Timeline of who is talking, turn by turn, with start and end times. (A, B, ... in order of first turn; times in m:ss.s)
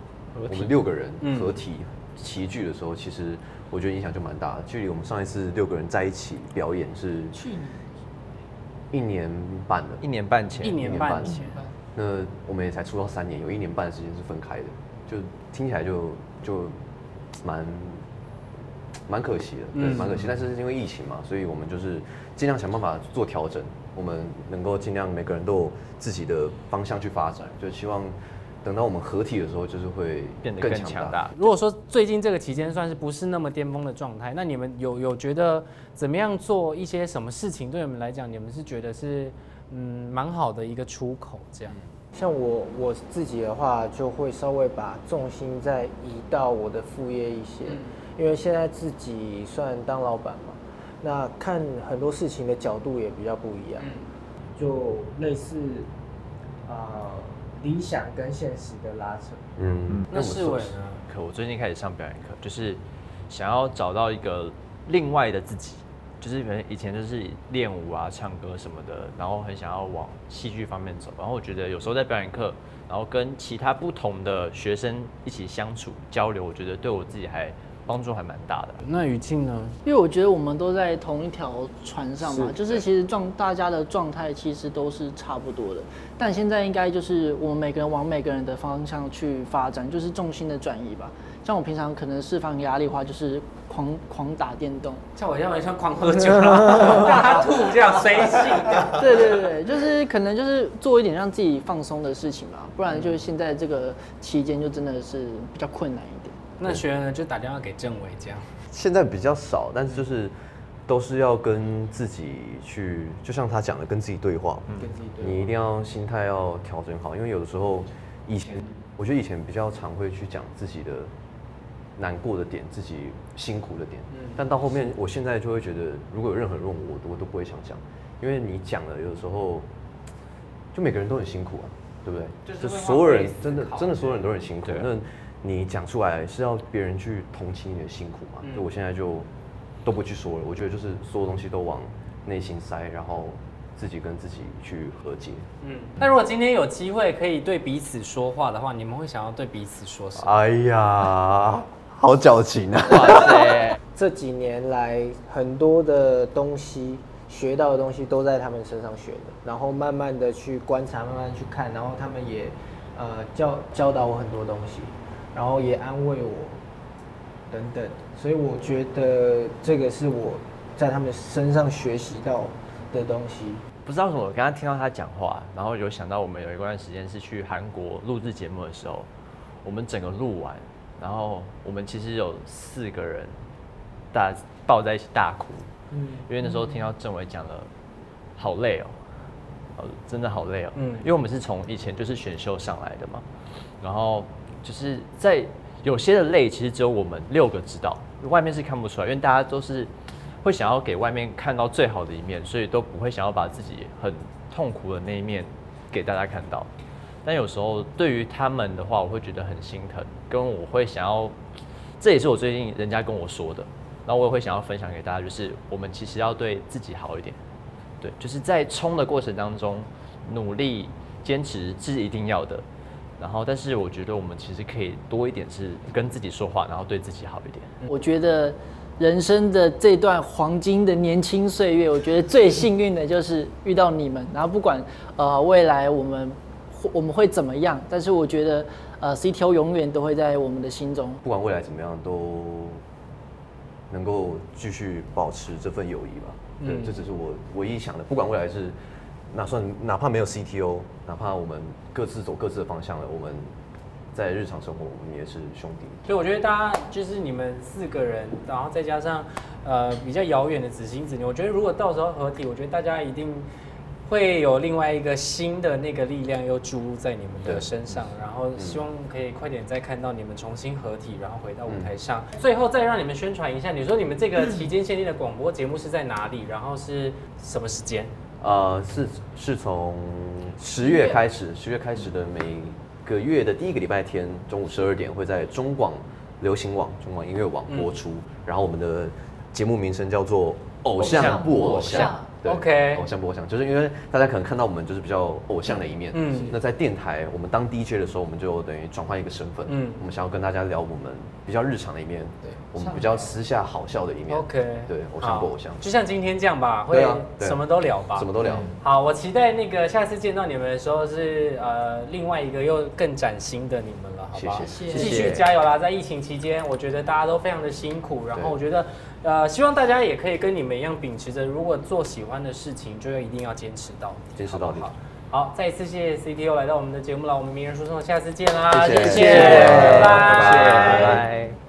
0:00.4-0:01.6 A
0:00.5-0:07.4 B
0:07.4-0:07.8 C
0:08.9-0:10.0 B
0:10.0-0:10.9 D
0:10.6-0:11.6 A
0:10.6-0:16.8 B
0:11.3-0:11.7 C
0:17.4-0:18.0 B
0:19.1-0:31.2 B
0:19.7-0:20.1 A
0:30.4-0:31.3 D
0:31.3-0:41.8 A
0:42.1-0:53.9 E
0:53.8-0:54.0 A
0:54.6-0:55.9 E
0:56.6-0:59.4 E
0:59.6-1:00.8 B
1:00.1-1:01.0 A
1:01.1-1:18.8 D
1:18.8-1:19.8 A
1:19.8-1:35.0 C
1:35.2-1:39.0 A
1:38.8-1:46.4 C
1:46.6-1:48.5 A
1:48.7-1:50.3 B
1:50.9-2:01.1 B
1:54.8-1:55.5 E
2:02.0-2:09.7 B
2:10.7-2:19.3 B
2:12.4-2:14.2 A
2:18.4-2:18.7 A
2:19.8-2:25.5 B
2:25.6-2:30.3 A
2:30.2-2:33.6 B
2:32.9-2:33.8 D
2:33.9-2:46.6 E
2:47.5-2:53.6 E
2:53.8-2:59.1 D
2:59.6-3:03.4 D
3:04.1-3:05.7 D
3:05.9-3:06.3 E
3:06.3-3:07.7 D
3:08.4-3:09.0 D
3:09.8-3:13.3 D
3:10.8-3:11.1 A
3:13.8-3:19.9 D
3:20.4-3:26.7 D
3:27.2-3:31.4 D
3:32.0-3:37.4 D
3:38.0-3:42.6 D
3:43.2-3:47.7 D
3:47.9-4:01.2 C
4:01.2-4:02.8 B
4:03.9-4:08.8 B
4:06.6-4:07.0 A
4:09.3-4:13.5 B
4:14.1-4:16.0 B
4:16.0-4:23.5 A
4:24.1-4:38.1 A
4:28.6-4:28.8 B
4:31.7-4:31.9 B
4:38.4-5:05.8 B
4:47.7-4:47.9 A
4:51.0-4:52.2 D
4:51.4-4:52.2 C
4:52.4-4:53.1 A
4:56.1-4:56.6 A
4:59.7-5:00.0 A
5:04.3-5:31.2 A
5:06.9-5:07.6 B
5:08.2-5:08.8 B
5:14.3-5:15.5 B
5:14.6-5:15.2 C
5:15.0-5:15.4 D
5:24.4-5:24.9 B
5:28.7-5:31.3 B
5:28.9-5:31.6 D